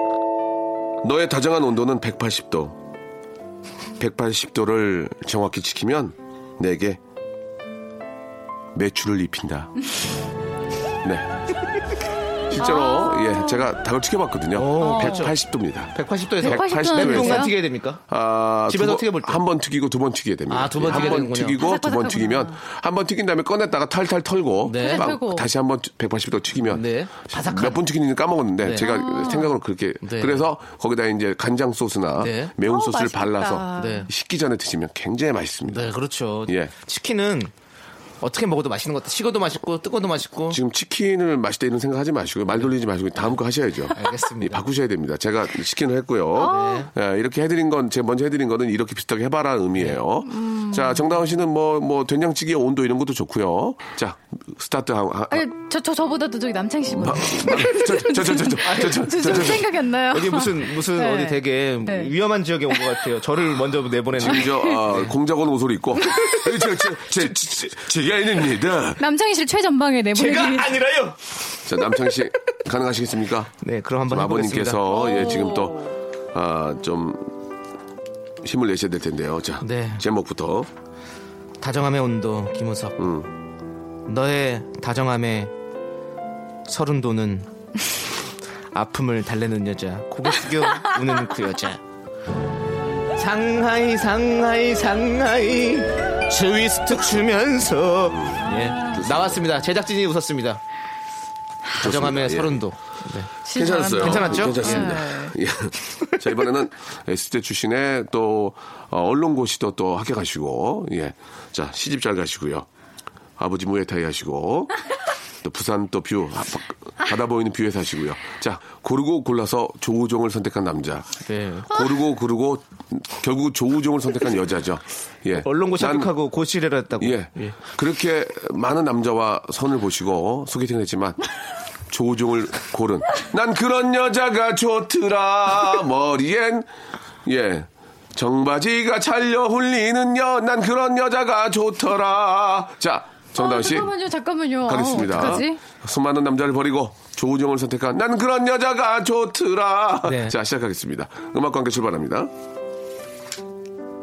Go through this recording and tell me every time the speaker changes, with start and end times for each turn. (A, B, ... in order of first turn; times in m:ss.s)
0:01.0-0:02.8 A
0:04.0-0:07.0 A
0:08.7-0:09.7 A
0:12.5-0:17.6 A
0:12.5-0:13.6 B
0:14.5-0:15.3 C
0:14.8-0:15.3 B
0:15.9-0:18.0 C
0:16.4-0:17.5 B
0:18.1-0:35.9 A
0:18.7-0:19.4 C
0:20.5-0:21.6 C
0:20.9-0:22.6 B
0:24.6-0:25.1 C
0:24.7-0:25.5 B
0:26.7-0:27.8 C
0:28.6-0:28.9 C
0:28.8-0:29.6 B
0:30.0-0:30.5 C
0:32.2-0:32.5 C
0:32.6-0:34.1 B
0:33.8-0:34.1 C
0:35.7-0:37.5 C
0:36.5-0:36.7 A
0:38.2-0:40.6 C
0:40.5-0:55.5 A
0:43.9-0:44.6 C
0:46.4-0:46.9 B
0:46.4-0:46.9 C
0:50.3-0:51.1 B
0:55.3-1:02.1 B
0:56.9-0:59.7 A
0:58.6-0:59.0 C
1:00.1-1:05.1 C
1:02.7-1:03.0 B
1:04.1-1:09.0 A
1:04.4-1:04.8 B
1:09.0-1:10.8 B
1:10.1-1:11.2 C
1:11.6-1:13.5 A
1:13.6-1:15.0 C
1:14.1-1:17.3 A
1:14.9-1:15.9 B
1:18.4-1:20.7 A
1:19.6-1:20.0 C
1:21.6-1:23.0 C
1:23.0-1:23.3 A
1:24.1-1:25.5 C
1:26.7-1:27.5 C
1:28.7-1:31.8 C
1:33.2-1:40.6 C
1:38.1-1:39.4 A
1:38.4-1:39.0 B
1:41.8-1:43.3 C
1:41.8-1:42.6 A
1:43.4-1:45.4 B
1:43.5-1:52.7 A
1:44.0-1:45.0 C
1:53.4-1:54.7 A
1:55.4-2:01.1 A
2:01.2-2:01.7 C
2:01.7-2:06.1 A
2:05.4-2:07.6 C
2:07.0-2:11.2 A
2:11.9-2:16.7 A
2:17.2-2:23.9 A
2:23.4-2:25.6 B
2:24.6-2:32.3 A
2:30.0-2:30.4 C